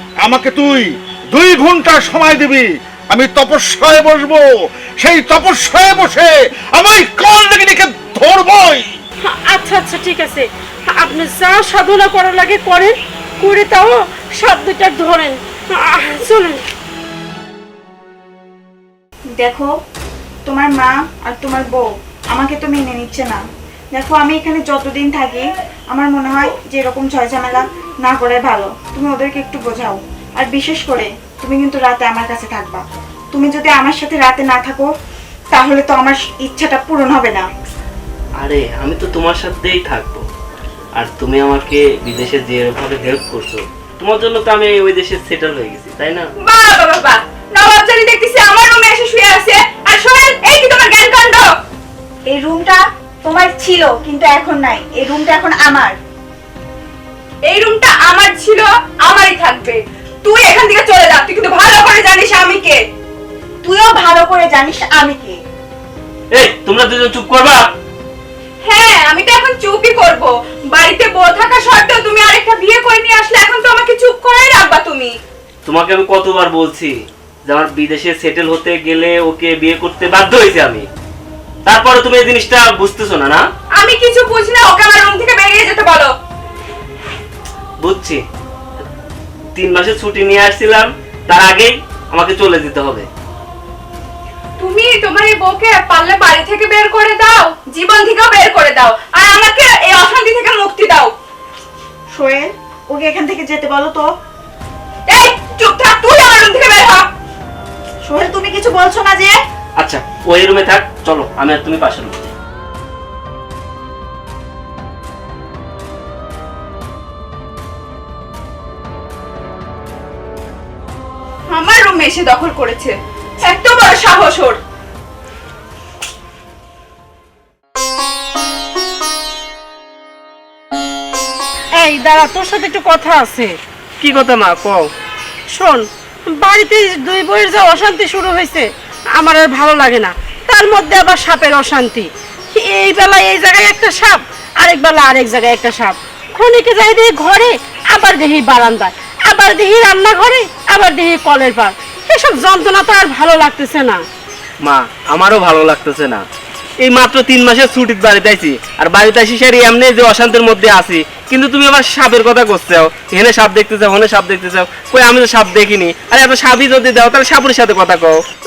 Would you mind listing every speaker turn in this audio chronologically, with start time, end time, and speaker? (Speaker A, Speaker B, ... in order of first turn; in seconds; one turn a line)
Speaker A: 0.2-4.5
Speaker A: 5.0-8.9
Speaker B: 9.2-16.6
Speaker C: 19.3-19.7
Speaker C: 20.4-32.8
Speaker C: 33.3-34.9
Speaker C: 35.5-37.5
Speaker D: 38.4-40.2
Speaker D: 41.0-46.3
Speaker E: 46.4-51.5
Speaker C: 52.3-56.0
Speaker E: 57.5-62.8
Speaker C: 63.6-65.4
Speaker D: 66.3-67.7
Speaker E: 68.6-75.1
Speaker D: 75.6-80.9
Speaker D: 81.6-83.4
Speaker E: 83.8-86.1
Speaker D: 87.8-88.2
Speaker D: 89.5-93.1
Speaker E: 94.6-101.1
Speaker C: 102.1-104.1
Speaker E: 105.1-107.1
Speaker C: 108.1-109.4
Speaker D: 109.8-112.3
Speaker E: 121.5-124.6
Speaker B: 131.8-133.5
Speaker D: 134.0-134.9
Speaker B: 135.5-154.0
Speaker D: 154.6-156.2
Speaker D: 156.8-168.2